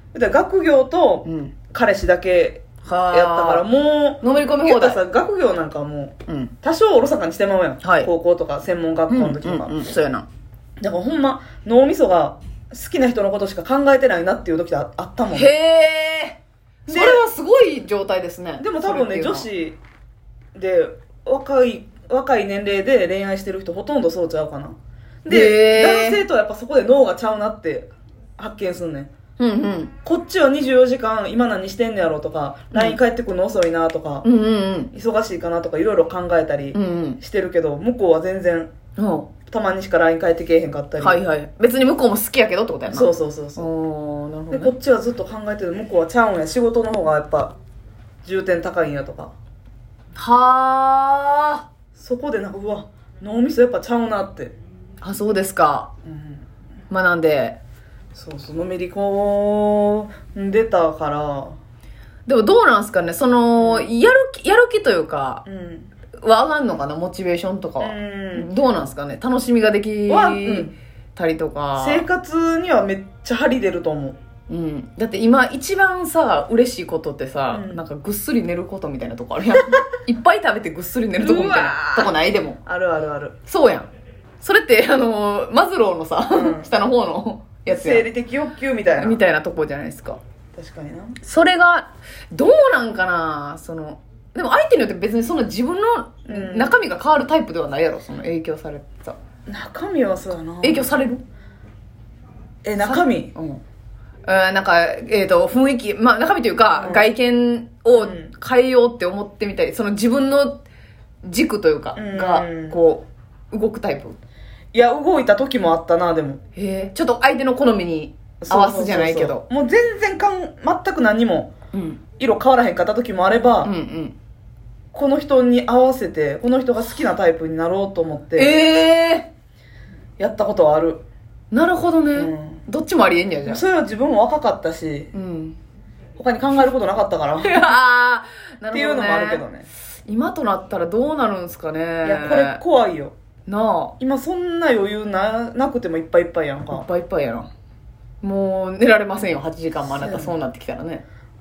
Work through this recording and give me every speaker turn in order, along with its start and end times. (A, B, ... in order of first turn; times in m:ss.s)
0:00.1-0:09.8 A
0:01.2-0:01.5 B
0:02.8-0:03.7 B
0:04.2-0:05.0 B
0:06.3-0:06.5 B
0:07.8-0:08.1 B
0:09.1-0:10.3 B
0:10.8-0:15.5 A
0:15.3-0:19.5 B
0:16.9-0:17.2 A
0:18.6-0:19.8 A
0:20.5-0:29.1 A
0:25.3-0:26.2 B
0:29.4-0:29.9 B
0:30.0-0:34.2 A
0:32.7-0:33.0 B
0:34.2-0:34.9 B
0:34.9-0:38.7 A
0:36.7-0:37.2 B
0:39.0-0:39.3 B
0:39.5-0:41.2 A
0:41.0-0:44.7 B
0:42.9-0:43.7 A
0:44.5-0:47.5 A
0:48.2-0:49.3 A
0:50.1-0:51.6 B
0:51.9-0:54.5 A
0:55.0-0:55.9 B
0:56.0-0:56.4 A
0:56.9-0:57.6 B
0:58.1-1:01.6 A
1:02.2-1:05.4 B
1:03.6-1:03.9 A
1:05.4-1:05.9 A
1:06.2-1:12.0 B
1:07.8-1:08.5 A
1:10.1-1:10.7 A
1:11.8-1:14.2 A
1:14.5-1:22.6 B
1:17.5-1:17.8 A
1:21.2-1:22.1 A
1:22.6-1:23.3 A
1:23.4-1:23.9 B
1:24.4-1:28.1 B
1:26.3-1:26.7 A
1:27.6-1:29.2 A
1:28.9-1:30.2 B
1:30.5-1:31.2 A
1:31.2-1:39.2 B
1:36.3-1:36.8 A
1:39.4-1:40.9 A
1:40.6-1:41.2 B
1:42.6-1:43.3 A
1:42.8-1:43.6 B
1:44.2-1:50.6 B
1:46.7-1:47.1 A
1:47.9-1:48.3 A
1:51.2-1:54.2 B
1:52.0-1:52.8 A
1:54.7-1:56.4 A
1:56.5-1:59.4 B
1:58.4-2:01.5 A
2:01.7-2:02.0 B
2:02.2-2:03.7 A
2:03.6-2:04.1 B
2:04.9-2:08.6 A
2:08.3-2:09.3 B
2:10.2-2:11.0 A
2:11.5-2:13.6 B
2:12.1-2:12.6 A
2:13.4-2:15.1 A
2:15.1-2:15.6 B
2:16.2-2:17.6 A
2:17.4-2:19.5 B
2:18.7-2:19.7 A
2:20.0-2:22.6 B
2:22.0-2:23.1 A
2:23.4-2:24.0 B
2:24.0-2:26.8 A
2:26.7-2:27.5 B
2:28.2-2:31.0 B
2:29.8-2:30.4 A